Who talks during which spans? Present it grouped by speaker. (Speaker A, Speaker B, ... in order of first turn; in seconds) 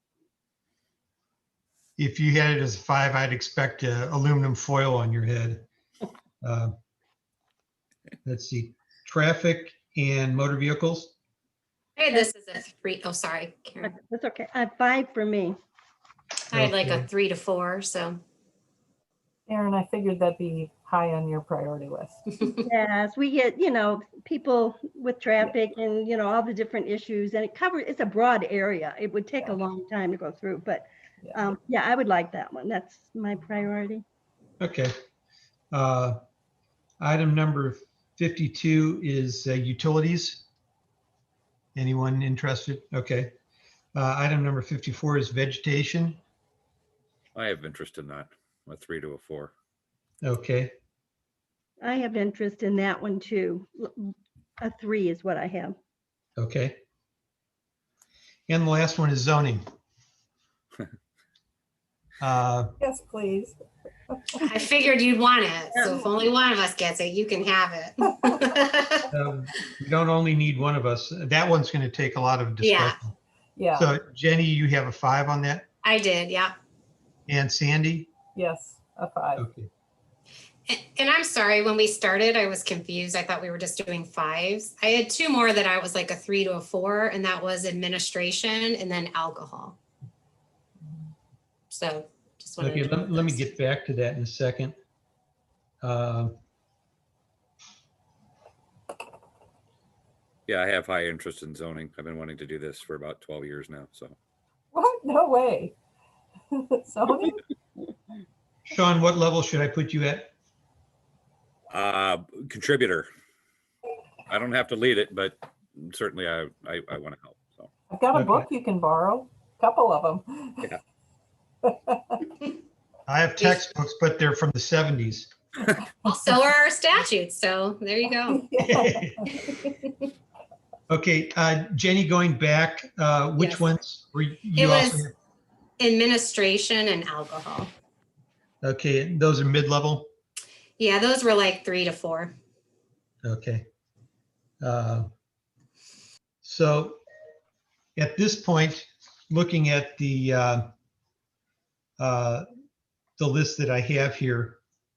Speaker A: 2.0-5.6, 6.4-6.7, 8.2-11.1, 16.5-17.1, 34.6-34.9, 35.7-36.2, 37.0-40.4, 41.7-43.3, 43.9-46.2, 50.2-50.7, 56.4-56.8, 58.5-59.6, 62.2-62.7, 69.1-73.1, 73.7-75.7, 77.3-78.1, 79.4-79.7, 92.6-94.7, 95.8-96.4, 108.7-110.3, 118.1-118.5, 123.1-125.3, 128.6-129.2, 130.9-135.1, 138.6-140.1, 143.2-143.7, 144.6-145.1, 146.4-147.0, 147.9-150.7, 152.0-152.5, 153.2-154.6
Speaker B: 12.0-13.9, 16.5-18.2, 64.4-69.0, 72.6-73.0, 75.8-76.5, 80.7-89.8, 91.7-93.5, 123.4-123.6, 126.0-128.4, 133.3-133.7, 134.6-135.1, 135.8-137.7, 140.8-142.3
Speaker C: 13.8-15.6, 22.4-34.0, 51.8-55.8
Speaker D: 19.5-22.2, 62.8-63.6, 64.1-64.4, 73.5-73.9, 78.3-79.4, 104.7-105.8, 106.5-107.4, 117.9-120.7, 121.6-122.2, 128.3-129.5
Speaker E: 47.3-49.5, 100.5-104.2, 111.7-113.1, 114.3-117.7